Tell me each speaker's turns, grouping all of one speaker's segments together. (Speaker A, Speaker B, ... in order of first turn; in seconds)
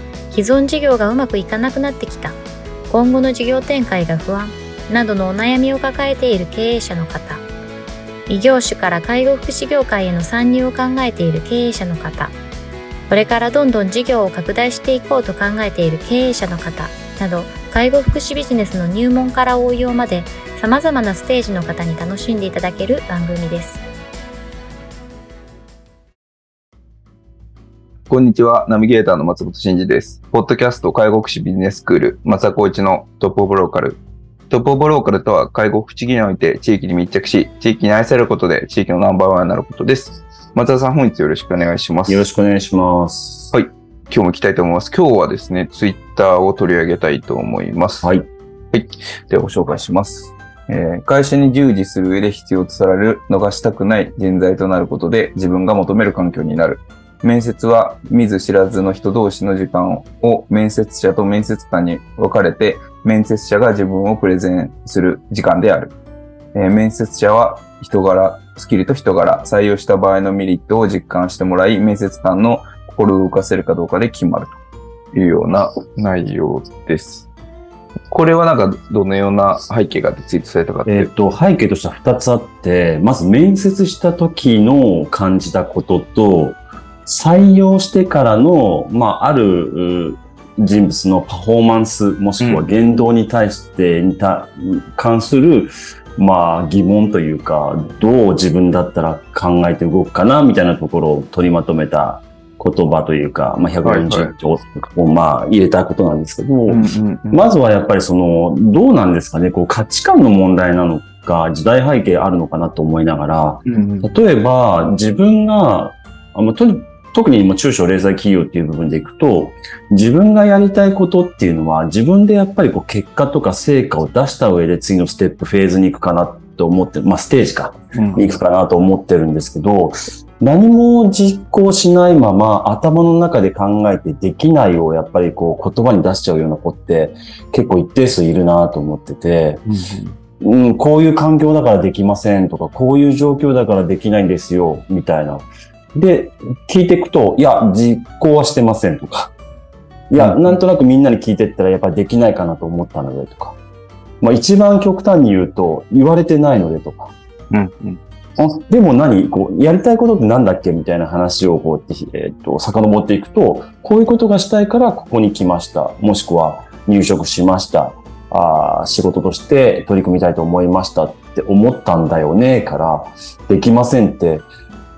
Speaker A: 0.3-2.4, 2.9-7.4, 8.3-12.3, 13.1-23.8
Speaker B: 28.1-42.3, 43.5-48.0, 48.7-66.0, 66.5-74.6, 75.1-77.3, 78.1-81.1, 92.4-92.7, 103.8-104.3, 106.7-107.5, 113.7-114.2, 127.9-128.4, 139.7-140.2, 150.2-150.6, 157.5-158.0
Speaker C: 42.1-43.5, 48.0-48.3, 80.9-139.7, 140.4-149.3, 150.1-153.6, 154.2-157.1, 158.4-174.5